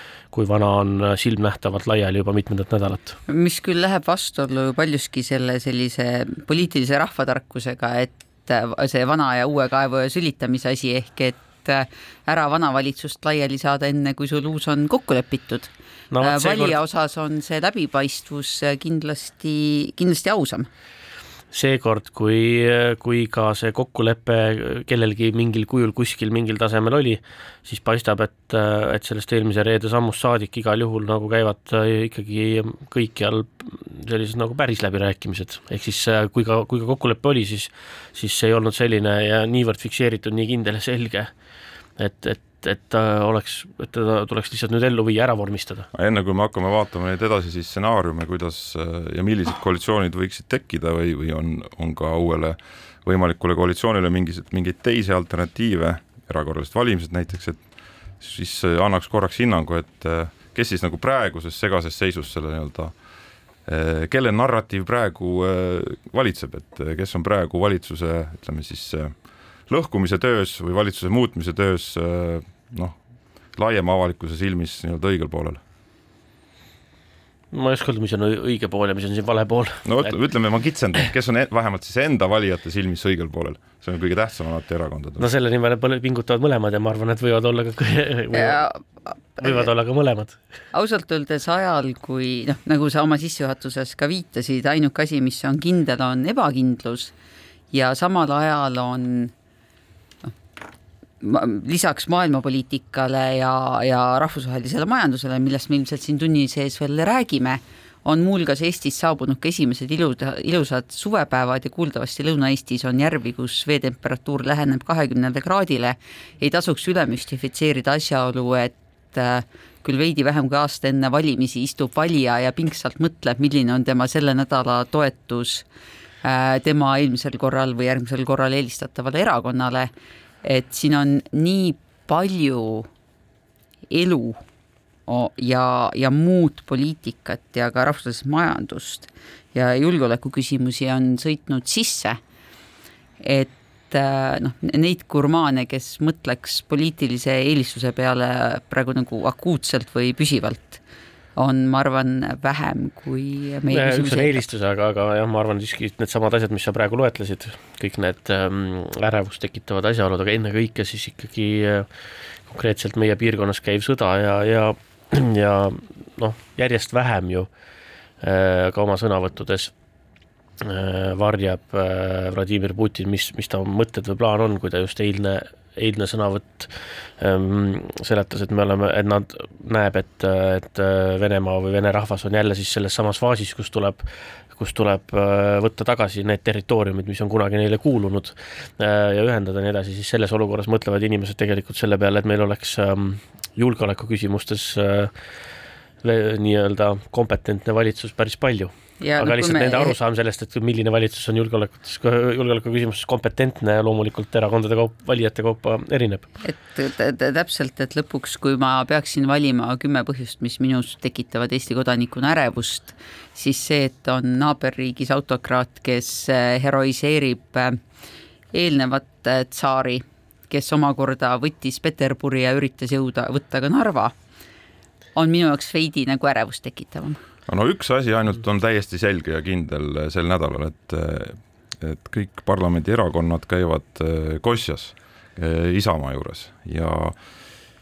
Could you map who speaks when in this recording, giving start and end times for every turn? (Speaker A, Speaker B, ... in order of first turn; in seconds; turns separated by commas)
Speaker A: 0.3-3.1, Speaker B: 3.3-20.7, Speaker A: 16.1-16.8, Speaker A: 21.5-41.3, Speaker A: 42.0-45.9, Speaker C: 45.9-57.6, Speaker C: 58.2-62.9, Speaker C: 63.7-69.1, Speaker C: 69.7-73.0, Speaker C: 73.5-75.6, Speaker A: 77.5-80.1, Speaker C: 79.8-85.2, Speaker A: 85.2-88.6, Speaker B: 88.3-88.8, Speaker B: 89.4-89.7, Speaker A: 89.4-90.4, Speaker B: 90.7-97.1, Speaker B: 97.7-99.3, Speaker B: 101.2-125.6, Speaker B: 126.2-129.9, Speaker B: 130.4-132.9, Speaker B: 133.9-134.4, Speaker B: 135.1-142.2, Speaker B: 143.2-150.8, Speaker B: 151.4-154.4, Speaker A: 153.7-161.9, Speaker A: 162.4-167.5, Speaker A: 168.2-169.7, Speaker A: 170.6-195.1, Speaker A: 196.0-206.3, Speaker B: 199.0-199.9, Speaker B: 206.4-217.8, Speaker B: 218.5-224.1, Speaker B: 225.2-227.2, Speaker C: 227.5-237.2